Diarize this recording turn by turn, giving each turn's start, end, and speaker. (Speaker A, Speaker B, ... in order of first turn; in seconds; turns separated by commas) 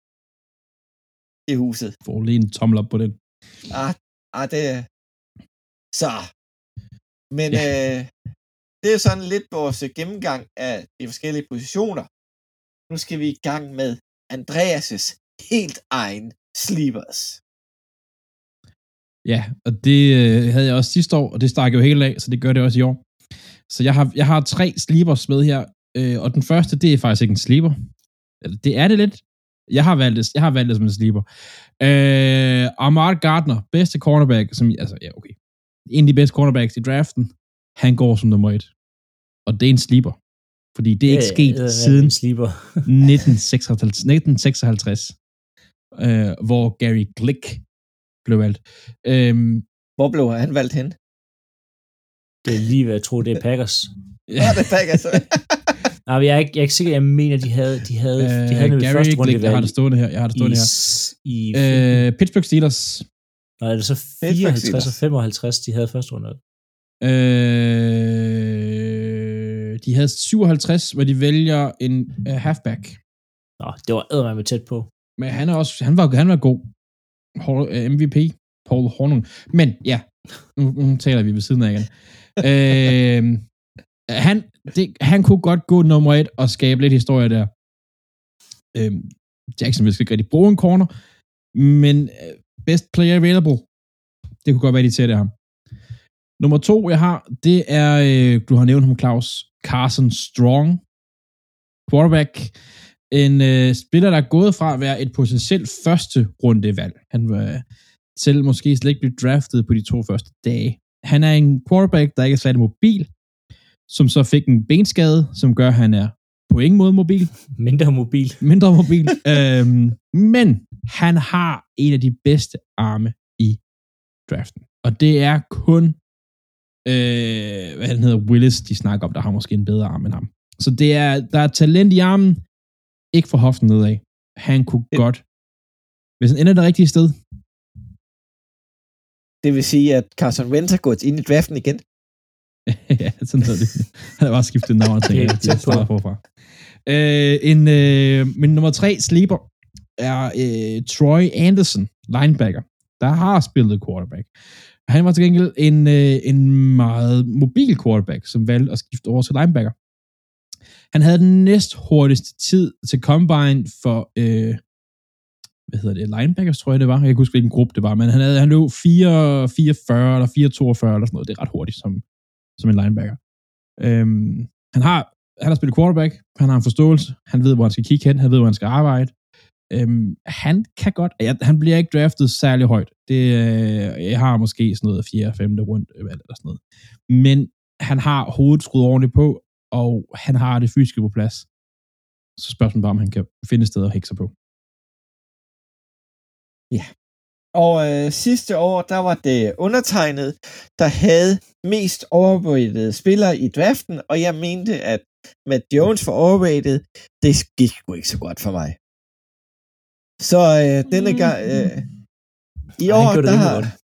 Speaker A: 1.5-1.9, Speaker B: 2.0-3.2, Speaker A: 3.7-4.9, Speaker A: 5.9-6.3, Speaker A: 7.3-8.1, Speaker A: 8.8-12.1, Speaker A: 12.9-17.4, Speaker B: 19.2-23.0, Speaker B: 23.7-27.8, Speaker B: 28.4-31.2, Speaker B: 31.8-35.4, Speaker B: 35.9-38.7, Speaker B: 39.5-40.2, Speaker B: 40.7-42.1, Speaker C: 41.1-43.3, Speaker B: 42.9-45.1, Speaker B: 45.9-47.6, Speaker B: 48.2-49.6, Speaker A: 50.0-51.0, Speaker C: 52.4-53.9, Speaker B: 54.3-55.2, Speaker A: 54.4-55.7, Speaker C: 56.1-59.7, Speaker B: 58.2-60.7, Speaker C: 60.4-62.0, Speaker B: 61.5-63.1, Speaker C: 63.6-66.4, Speaker A: 64.2-65.0, Speaker B: 67.0-73.0, Speaker C: 73.6-74.9, Speaker B: 75.2-76.7, Speaker B: 77.3-83.5, Speaker B: 84.1-87.5, Speaker B: 88.7-90.9, Speaker B: 91.5-93.7, Speaker B: 94.4-95.3, Speaker B: 96.4-100.8, Speaker B: 101.9-102.5, Speaker B: 103.1-107.6, Speaker B: 108.2-113.1, Speaker B: 113.9-117.3, Speaker C: 117.5-118.4, Speaker B: 118.4-123.6, Speaker B: 124.3-126.0, Speaker B: 126.8-132.4, Speaker B: 133.1-135.2, Speaker B: 136.2-137.2, Speaker A: 139.4-141.8, Speaker B: 142.7-146.2, Speaker C: 145.1-145.9, Speaker B: 146.8-149.4, Speaker B: 150.0-154.3, Speaker B: 154.9-159.7, Speaker B: 160.9-164.6, Speaker B: 165.7-172.0, Speaker B: 172.6-173.2, Speaker B: 173.8-179.1, Speaker B: 179.7-191.5, Speaker B: 192.4-194.3, Speaker A: 197.5-208.8, Speaker A: 210.2-211.8, Speaker C: 212.8-213.7, Speaker A: 212.8-213.7